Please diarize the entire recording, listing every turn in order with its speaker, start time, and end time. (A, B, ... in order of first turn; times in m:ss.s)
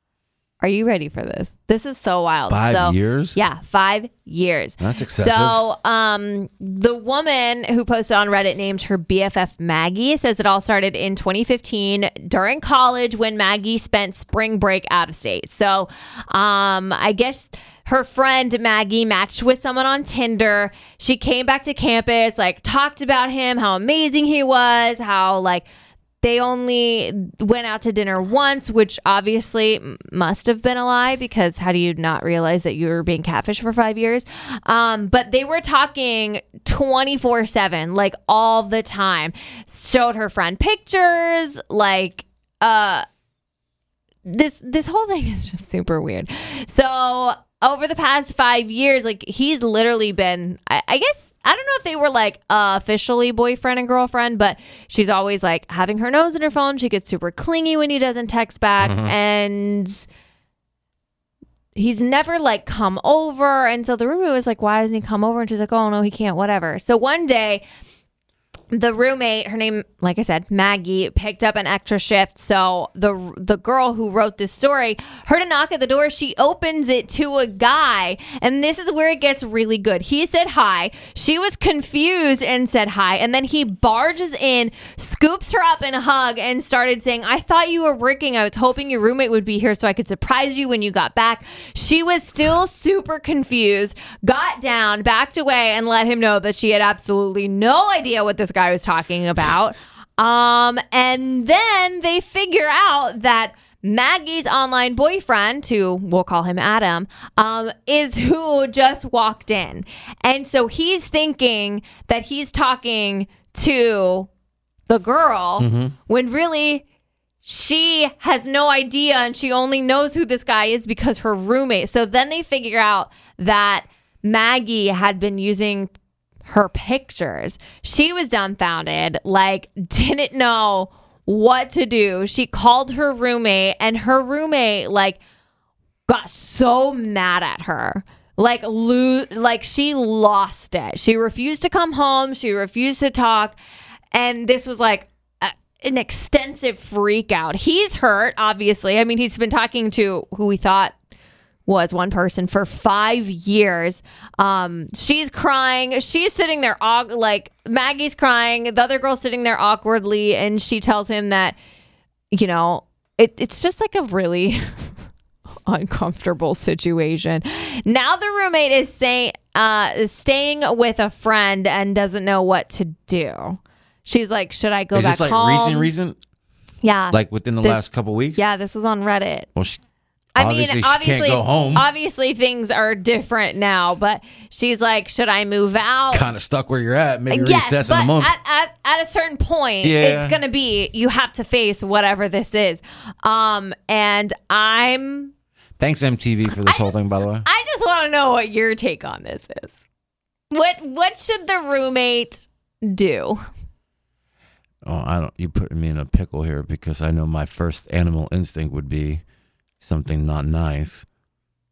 0:00.6-0:25.7 A
0:02.5-0:03.4 B
0:04.8-0:05.6 B
0:26.2-0:43.0 A
0:44.2-1:00.1 A
0:58.8-0:59.1 B
1:01.7-1:07.6 A
1:08.7-1:54.3 A
1:54.9-1:56.8 A
1:55.6-1:55.9 B
1:57.4-2:05.9 A
2:06.4-2:15.2 A
2:16.1-2:23.6 A
2:24.1-2:30.9 A
2:31.6-2:41.6 A
2:42.3-2:44.9 A
2:45.6-2:55.9 A
2:54.9-2:56.2 B
2:56.8-2:59.5 A
2:57.1-2:58.4 B
2:59.5-2:59.8 B
3:00.3-3:06.3 A
3:00.4-3:01.9 B
3:06.1-3:08.3 B
3:07.3-3:15.3 A
3:09.8-3:10.4 B
3:15.8-3:17.4 B
3:16.5-3:19.8 A
3:20.5-3:23.4 A
3:24.8-3:29.2 B
3:29.8-3:31.0 B